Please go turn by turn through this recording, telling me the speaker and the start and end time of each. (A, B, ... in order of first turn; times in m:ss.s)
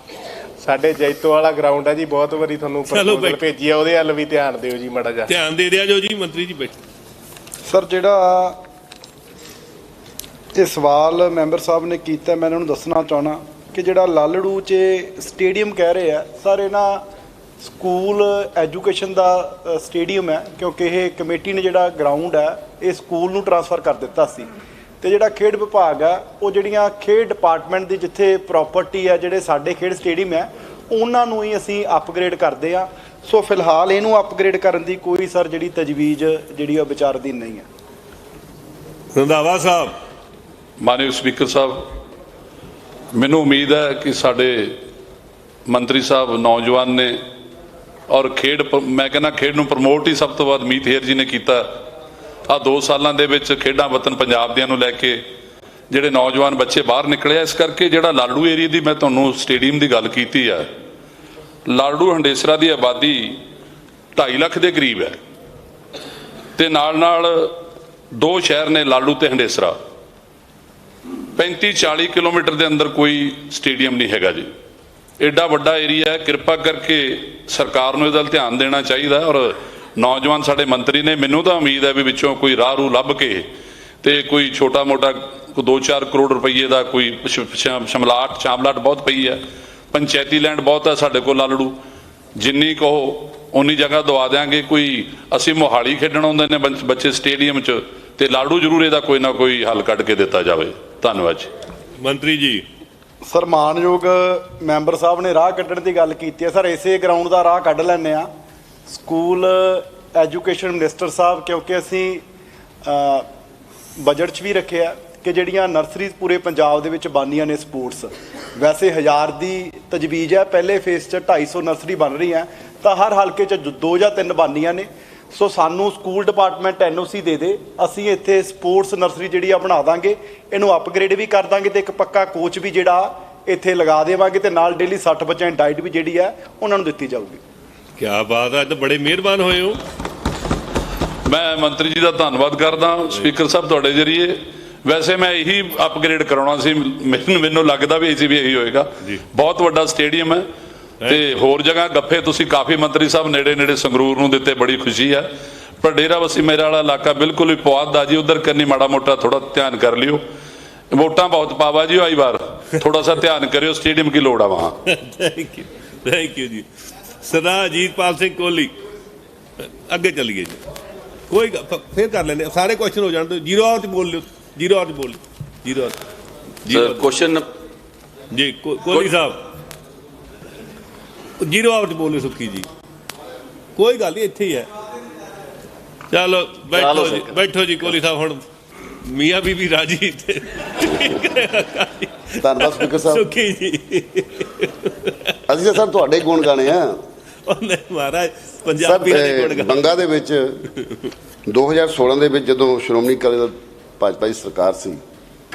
0:00.6-0:05.3 A
0:02.9-0:03.4 B
0:05.3-0:06.7 B
0:07.7-0:08.6 C
0:10.6-0:17.0 C
0:17.6-0:24.5 C
0:25.0-0:37.7 C
0:39.1-0:40.0 B
0:40.8-0:41.8 D
0:43.1-0:44.7 D
0:45.7-0:47.2 D
0:48.1-0:51.6 D
0:52.5-0:55.2 D
0:55.9-1:00.7 D
1:01.7-1:03.4 D
1:04.2-1:05.2 D
1:06.6-1:07.5 D
1:08.2-1:09.8 D
1:11.4-1:14.5 D
1:15.2-1:23.5 D
1:24.0-1:29.4 D
1:29.9-1:31.8 D
1:32.4-1:41.5 D
1:42.0-1:42.6 B
1:43.3-1:48.3 C
1:48.9-1:52.2 C
1:52.8-1:53.3 C
1:54.0-2:17.4 C
2:18.0-2:19.8 B
2:21.3-2:30.4 D
2:31.0-2:35.3 D
2:35.8-2:40.2 D
2:40.9-2:44.8 D
2:44.9-2:46.7 B
2:47.2-2:48.7 B
2:49.6-2:50.6 B
2:51.3-2:56.0 B
2:56.7-2:57.1 B
2:56.7-2:57.5 E
2:58.3-2:59.4 B
3:01.4-3:02.7 B
3:03.8-3:04.7 B
3:06.1-3:08.4 B
3:06.7-3:08.0 E
3:09.0-3:15.3 B
3:12.4-3:13.3 F
3:15.5-3:17.0 F
3:17.5-3:19.9 B
3:18.8-3:20.6 F
3:21.5-3:25.0 F